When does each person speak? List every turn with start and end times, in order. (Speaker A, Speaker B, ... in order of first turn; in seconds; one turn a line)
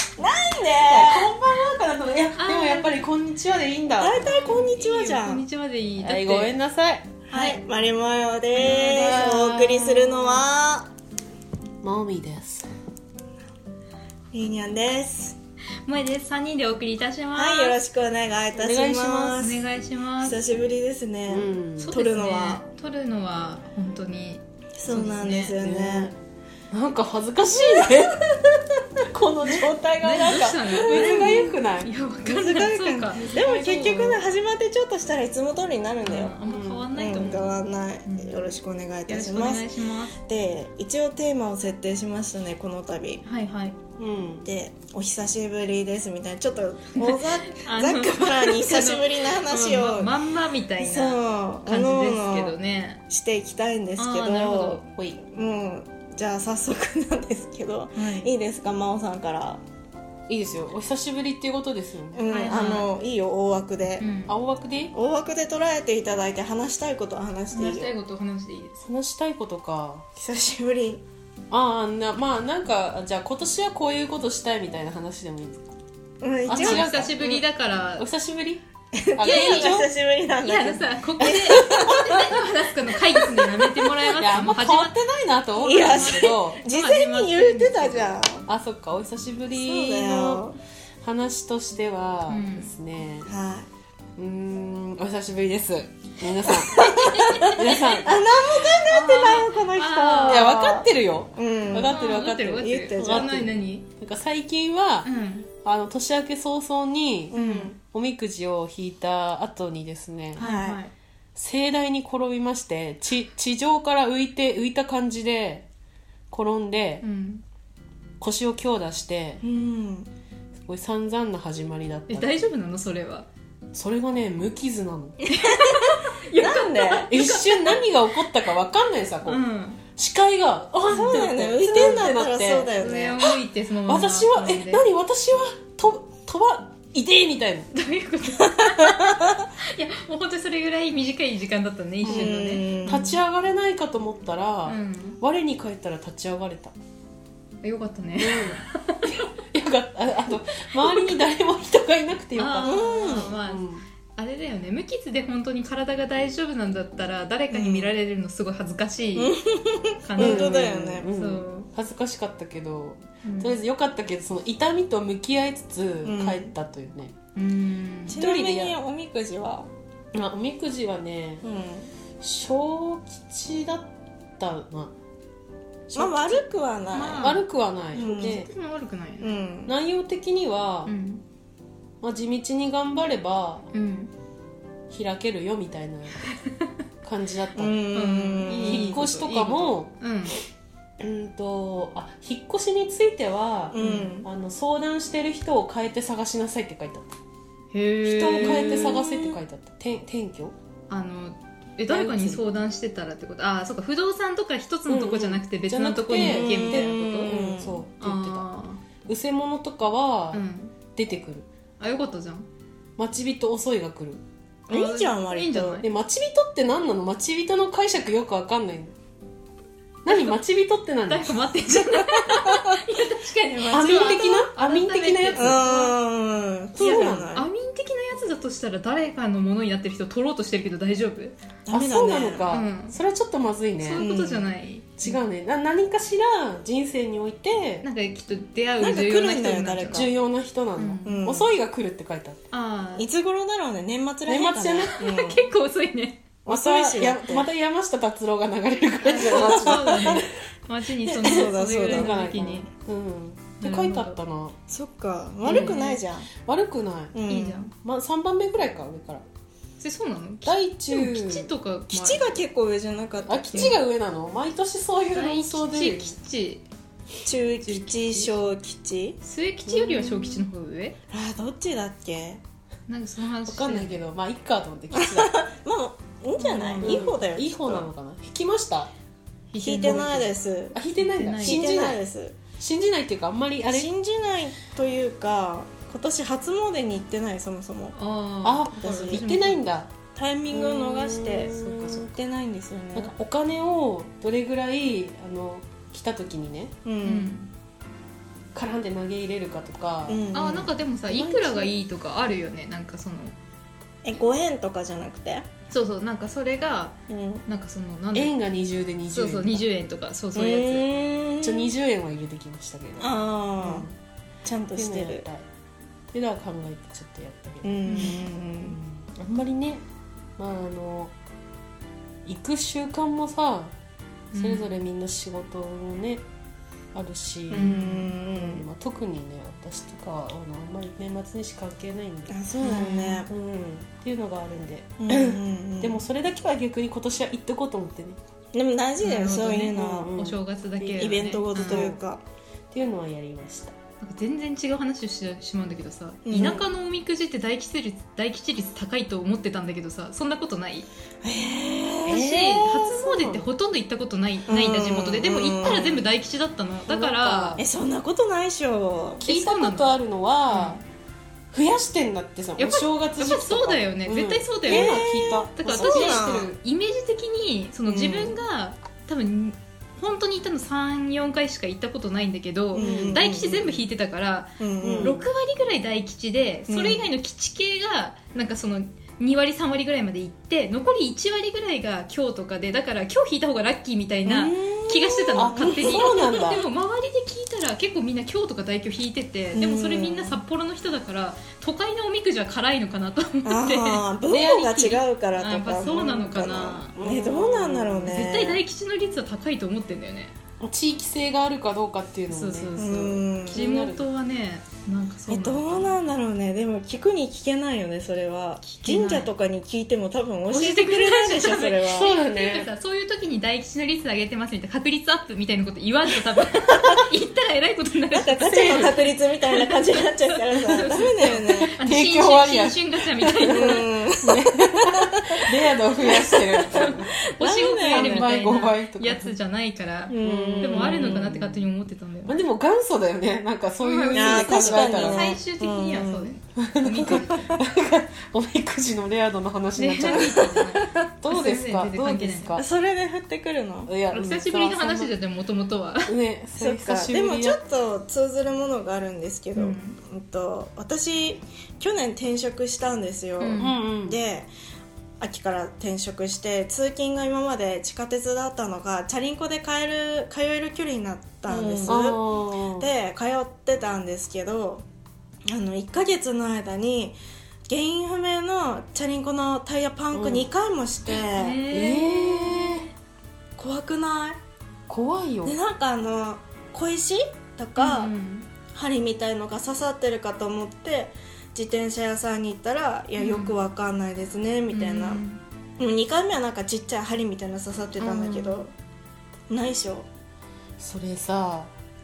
Speaker A: 0.2-1.3
Speaker B: 0.8-4.4
Speaker C: 2.4-3.1
Speaker A: 4.0-5.4
Speaker C: 4.2-6.5
Speaker B: 6.0-7.1
Speaker A: 7.3-10.9
Speaker C: 7.3-7.6
Speaker B: 8.5-10.4
Speaker B: 11.8-12.7
Speaker A: 14.3-15.3
Speaker C: 15.8-17.8
Speaker A: 17.3-19.6
Speaker B: 18.6-19.4
Speaker C: 19.4-20.4
Speaker A: 20.2-22.6
Speaker B: 21.3-21.9
Speaker C: 21.8-25.6
Speaker A: 24.8-26.1
Speaker B: 25.6-26.2
Speaker B: 26.7-31.9
Speaker A: 27.5-28.4
Speaker C: 30.0-34.2
Speaker A: 30.8-31.6
Speaker A: 32.2-36.4
Speaker B: 33.1-34.2
Speaker C: 36.0-38.5
Speaker B: 36.5-37.4
Speaker A: 36.9-39.6
Speaker C: 39.1-40.1
Speaker A: 40.1-43.2
Speaker C: 43.2-43.8
Speaker B: 44.0-44.5
Speaker A: 44.4-50.1
Speaker C: 47.0-53.0
Speaker A: 50.8-52.5
Speaker A: 53.1-59.6
Speaker C: 54.0-54.8
Speaker B: 54.7-55.2
Speaker C: 58.0-58.3
Speaker B: 60.3-62.2
Speaker A: 62.1-64.1
Speaker C: 62.3-62.9
Speaker C: 64.0-64.3
Speaker B: 64.3-64.9
Speaker A: 64.9-67.9
Speaker C: 67.5-68.8
Speaker B: 68.8-70.0
Speaker A: 70.2-71.0
Speaker B: 71.5-75.6
Speaker A: 76.2-77.4
Speaker B: 76.5-77.3
Speaker C: 76.5-78.1
Speaker B: 78.0-78.6
Speaker A: 78.9-82.4
Speaker B: 79.2-79.9
Speaker C: 79.2-79.8
Speaker C: 80.4-85.0
Speaker B: 81.2-82.0
Speaker A: 83.2-84.2
Speaker B: 84.2-86.6
Speaker A: 85.6-88.5
Speaker C: 85.8-88.2
Speaker B: 88.5-93.3
Speaker A: 89.5-90.6
Speaker C: 92.3-92.7
Speaker A: 93.2-93.7
Speaker B: 94.2-98.2
Speaker A: 96.6-102.0
Speaker C: 96.8-98.1
Speaker C: 98.9-100.6
Speaker B: 100.2-105.1
Speaker C: 101.8-103.8
Speaker A: 102.6-103.3
Speaker C: 105.0-105.5
Speaker B: 105.6-110.5
Speaker A: 107.3-107.8
Speaker C: 107.3-107.8
Speaker A: 110.4-110.8
Speaker C: 110.4-110.9
Speaker B: 111.4-115.7
Speaker B: 116.3-117.0
Speaker C: 117.0-117.4
Speaker B: 118.2-119.4
Speaker A: 119.4-120.1
Speaker B: 120.6-122.4
Speaker C: 122.1-123.3
Speaker B: 123.7-125.2
Speaker A: 125.2-125.7
Speaker C: 125.3-127.8
Speaker A: 126.3-127.1
Speaker B: 127.1-129.4
Speaker C: 129.2-129.8
Speaker B: 130.0-132.8
Speaker C: 130.9-132.1
Speaker A: 130.9-133.3
Speaker C: 132.7-134.8
Speaker B: 133.9-137.7
Speaker C: 137.7-143.1
Speaker B: 138.4-139.2
Speaker A: 142.0-143.1
Speaker B: 142.1-146.7
Speaker C: 144.7-145.2
Speaker C: 147.6-149.2
Speaker B: 148.2-153.8
Speaker C: 150.8-151.2
Speaker C: 152.4-159.4
Speaker A: 152.7-153.3
Speaker A: 157.5-157.9
Speaker A: 159.2-161.1
Speaker C: 160.0-161.7
Speaker B: 160.2-167.1
Speaker C: 163.2-163.6
Speaker A: 166.0-166.5
Speaker C: 167.4-168.2
Speaker A: 168.1-169.7
Speaker B: 168.2-168.8
Speaker B: 170.1-171.5
Speaker A: 171.4-171.9
Speaker B: 172.2-174.9
Speaker B: 175.9-176.4
Speaker A: 176.0-177.4
Speaker C: 176.9-179.3
Speaker B: 177.2-178.5
Speaker A: 177.9-178.5
Speaker A: 179.2-179.7
Speaker B: 179.7-180.9
Speaker C: 180.9-181.2
Speaker B: 182.0-183.7
Speaker C: 183.7-184.1
Speaker B: 184.9-186.2
Speaker C: 186.2-186.7
Speaker B: 187.0-187.8
Speaker A: 187.6-189.0
Speaker C: 187.9-190.4
Speaker B: 188.5-189.9
Speaker B: 191.0-197.1
Speaker A: 193.7-194.3
Speaker C: 193.8-194.1
Speaker C: 197.7-199.0
Speaker A: 198.1-199.4
Speaker B: 198.1-200.5
Speaker C: 200.9-207.3
Speaker B: 201.9-202.4
Speaker B: 204.9-208.4
Speaker A: 206.1-207.9
Speaker C: 208.0-208.8
Speaker B: 209.1-210.4
Speaker C: 210.3-210.8
Speaker B: 210.9-211.5
Speaker C: 211.8-212.5
Speaker B: 213.0-214.2
Speaker A: 214.7-215.8
Speaker C: 214.7-215.9
Speaker B: 215.8-218.9
Speaker B: 220.1-221.4
Speaker C: 221.1-226.0
Speaker A: 223.7-224.5
Speaker B: 223.7-225.7
Speaker A: 225.4-227.5
Speaker B: 226.8-227.3
Speaker C: 226.8-231.4
Speaker A: 231.7-232.5
Speaker B: 231.7-234.1
Speaker C: 232.5-233.0
Speaker C: 233.8-235.2
Speaker A: 234.0-234.5
Speaker B: 235.0-237.8
Speaker C: 237.8-240.1
Speaker A: 238.8-240.1
Speaker B: 239.9-242.4
Speaker C: 240.8-241.2
Speaker A: 241.0-241.5
Speaker C: 242.5-243.1
Speaker A: 243.0-245.4
Speaker B: 244.3-245.0
Speaker C: 244.9-246.2
Speaker A: 246.5-247.5
Speaker B: 246.5-250.3
Speaker A: 249.0-250.3
Speaker C: 249.1-252.7
Speaker A: 251.1-252.1
Speaker B: 251.2-254.6
Speaker C: 253.6-254.2
Speaker A: 254.7-256.3
Speaker B: 255.4-255.8
Speaker C: 255.5-256.0
Speaker B: 256.4-257.1
Speaker A: 257.1-257.6
Speaker C: 257.3-257.7
Speaker B: 257.8-259.2
Speaker C: 259.8-262.4
Speaker B: 260.4-261.5
Speaker A: 261.9-263.8
Speaker B: 263.3-266.2
Speaker C: 265.1-266.6
Speaker A: 267.2-269.2
Speaker C: 267.6-268.4
Speaker C: 269.2-270.9
Speaker B: 269.7-270.5
Speaker A: 271.1-272.4
Speaker C: 272.9-274.0
Speaker B: 273.4-275.3
Speaker A: 274.9-277.9
Speaker C: 276.4-277.1
Speaker B: 276.8-278.9
Speaker C: 279.5-280.2
Speaker A: 279.6-280.8
Speaker B: 279.8-282.0
Speaker C: 281.0-281.7
Speaker A: 281.4-282.4
Speaker B: 282.6-283.9
Speaker A: 283.7-287.9
Speaker C: 287.9-289.6
Speaker B: 288.4-289.9
Speaker A: 288.8-289.3
Speaker A: 290.1-293.1
Speaker B: 290.5-292.1
Speaker C: 291.6-292.0
Speaker B: 292.9-296.7
Speaker A: 296.8-297.3
Speaker C: 297.0-297.5
Speaker B: 298.5-300.2
Speaker A: 300.1-300.7
Speaker C: 300.3-303.4
Speaker B: 301.1-301.7
Speaker A: 304.0-305.4
Speaker C: 305.7-308.3
Speaker A: 307.1-307.4
Speaker B: 308.1-309.6
Speaker C: 309.1-310.9
Speaker A: 310.3-311.7
Speaker B: 311.4-313.9
Speaker A: 313.0-313.9
Speaker A: 314.4-315.2
Speaker B: 314.8-315.4
Speaker B: 316.1-319.8
Speaker A: 317.6-318.8
Speaker C: 317.9-318.2
Speaker B: 320.4-321.1
Speaker B: 322.2-323.7
Speaker C: 324.3-324.8
Speaker B: 324.3-326.2
Speaker B: 326.9-338.2
Speaker A: 327.5-328.7
Speaker C: 327.5-328.1
Speaker A: 332.3-333.3
Speaker C: 332.6-333.2
Speaker A: 335.0-336.1
Speaker A: 338.5-340.1
Speaker C: 339.0-341.9
Speaker B: 339.7-342.0
Speaker A: 340.9-342.2
Speaker B: 342.7-343.8
Speaker C: 344.0-350.9
Speaker A: 346.2-346.6
Speaker A: 351.2-352.7
Speaker B: 352.1-353.5
Speaker C: 352.1-357.6
Speaker A: 354.4-356.1
Speaker B: 356.9-357.6
Speaker A: 357.6-359.2
Speaker B: 359.2-360.8
Speaker C: 359.2-359.9
Speaker C: 360.5-360.8
Speaker B: 361.5-366.5
Speaker C: 362.6-394.0
Speaker A: 364.6-366.5
Speaker A: 367.9-368.4
Speaker A: 372.7-373.8
Speaker B: 372.8-373.3
Speaker A: 374.6-375.2
Speaker B: 374.8-375.3
Speaker A: 376.7-377.1
Speaker A: 384.2-386.5
Speaker B: 385.4-386.6
Speaker A: 389.5-390.4
Speaker A: 393.4-398.6
Speaker B: 394.3-394.9
Speaker C: 394.8-396.9
Speaker B: 396.9-398.2
Speaker C: 398.1-400.3
Speaker B: 400.6-404.1
Speaker C: 402.3-405.9
Speaker A: 402.8-403.6
Speaker A: 405.3-412.1
Speaker C: 408.6-409.3
Speaker C: 410.5-423.8
Speaker B: 411.8-412.7
Speaker A: 418.1-421.7
Speaker B: 418.4-419.1
Speaker B: 420.7-427.1
Speaker A: 423.4-425.2
Speaker A: 426.0-428.4
Speaker C: 426.7-432.4
Speaker B: 427.9-429.3
Speaker A: 430.1-431.2
Speaker B: 430.2-431.6
Speaker B: 432.3-435.4
Speaker C: 433.8-437.6
Speaker A: 434.1-436.3
Speaker B: 436.6-440.6
Speaker A: 437.0-437.6
Speaker C: 439.8-442.6
Speaker A: 440.0-440.8
Speaker B: 441.2-442.6
Speaker A: 442.6-443.9
Speaker B: 443.9-445.1
Speaker C: 444.1-446.1
Speaker B: 446.1-447.6
Speaker A: 446.5-454.5
Speaker C: 449.5-450.0
Speaker C: 453.4-453.8
Speaker B: 453.6-454.2
Speaker A: 455.2-462.2
Speaker B: 461.5-462.9
Speaker A: 462.8-464.8
Speaker A: 465.5-467.1
Speaker A: 467.7-471.6
Speaker B: 470.1-470.5
Speaker C: 471.3-472.8
Speaker B: 471.7-472.9
Speaker A: 473.6-474.4
Speaker B: 474.9-475.5
Speaker A: 475.4-478.1
Speaker C: 477.8-478.5
Speaker A: 478.7-485.2
Speaker C: 483.2-483.6
Speaker C: 484.7-485.4
Speaker A: 485.8-488.7
Speaker C: 488.0-488.6
Speaker A: 489.5-490.1
Speaker B: 490.8-491.7